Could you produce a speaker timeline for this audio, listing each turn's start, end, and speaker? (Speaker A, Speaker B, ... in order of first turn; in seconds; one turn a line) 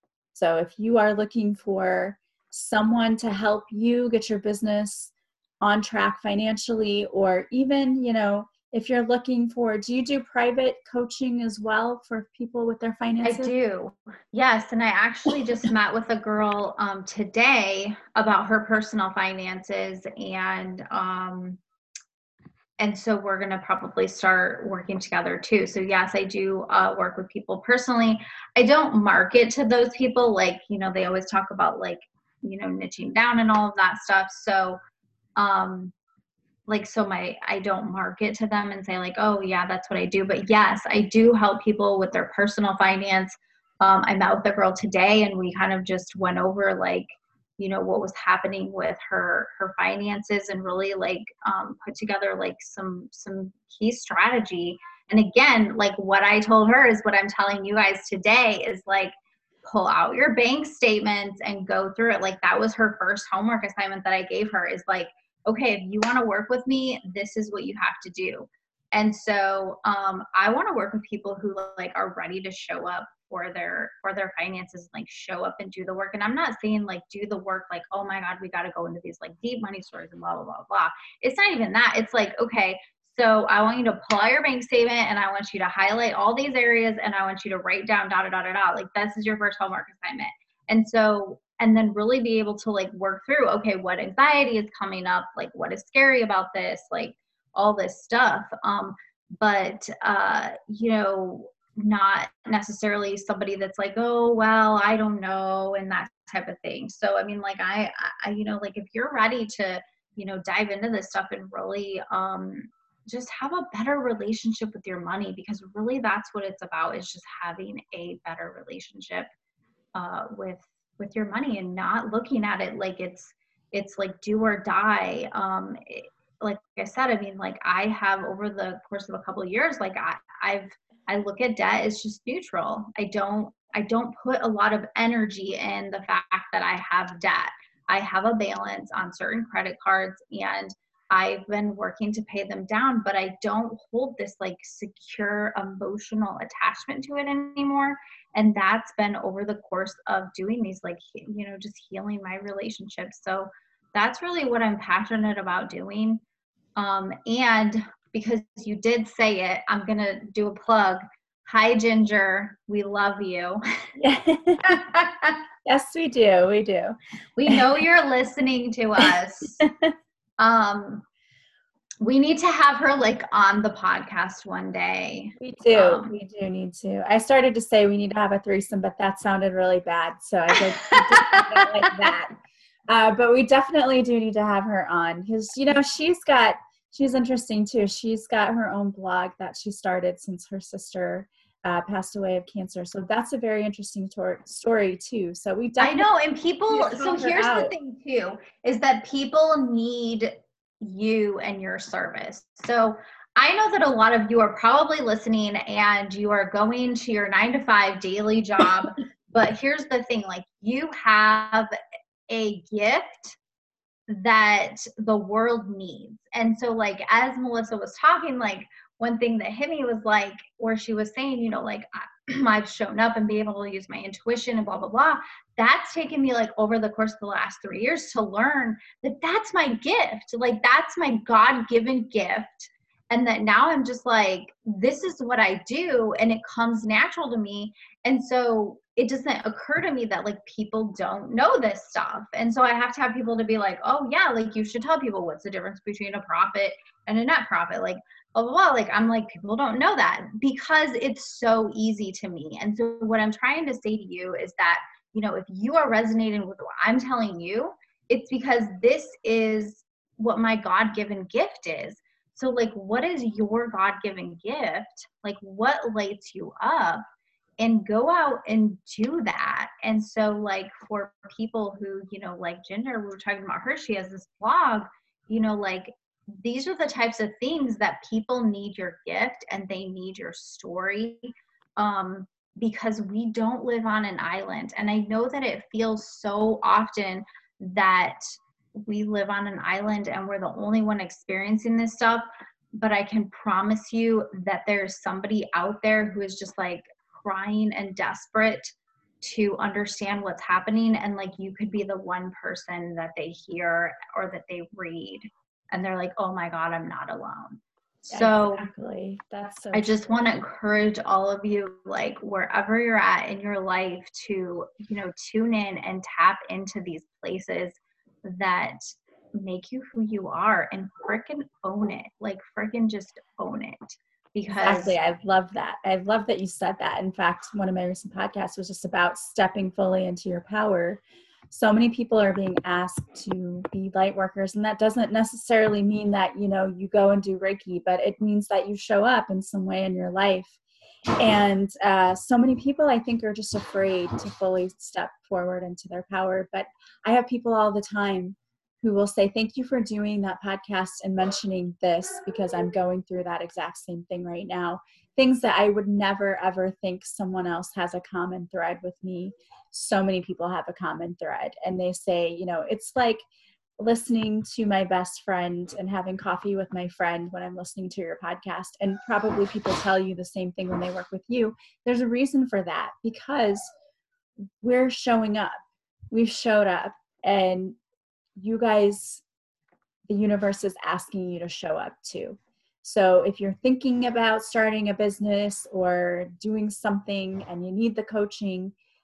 Speaker A: 0.3-13.5
Speaker B: 13.2-21.6
Speaker B: 22.8-34.8
Speaker B: 35.4-35.9
Speaker B: 36.7-59.1
Speaker B: 59.6-119.3
Speaker B: 120.0-156.2
Speaker B: 156.8-163.6
Speaker A: 164.0-164.9
Speaker B: 164.7-165.4
Speaker A: 165.7-167.0
Speaker B: 167.4-169.6
Speaker A: 169.0-169.9
Speaker B: 170.4-171.1
Speaker B: 172.0-176.1
Speaker A: 175.4-182.3
Speaker B: 181.0-182.2
Speaker A: 182.9-196.1
Speaker B: 195.8-211.7
Speaker A: 196.7-197.7
Speaker B: 212.3-213.4
Speaker B: 214.1-267.0
Speaker B: 267.6-308.7
Speaker A: 308.1-310.0
Speaker B: 309.7-325.0
Speaker A: 324.6-340.6
Speaker A: 341.2-363.2
Speaker A: 363.8-373.7
Speaker A: 374.6-375.6
Speaker A: 376.1-377.8
Speaker A: 378.4-379.2
Speaker A: 380.1-388.8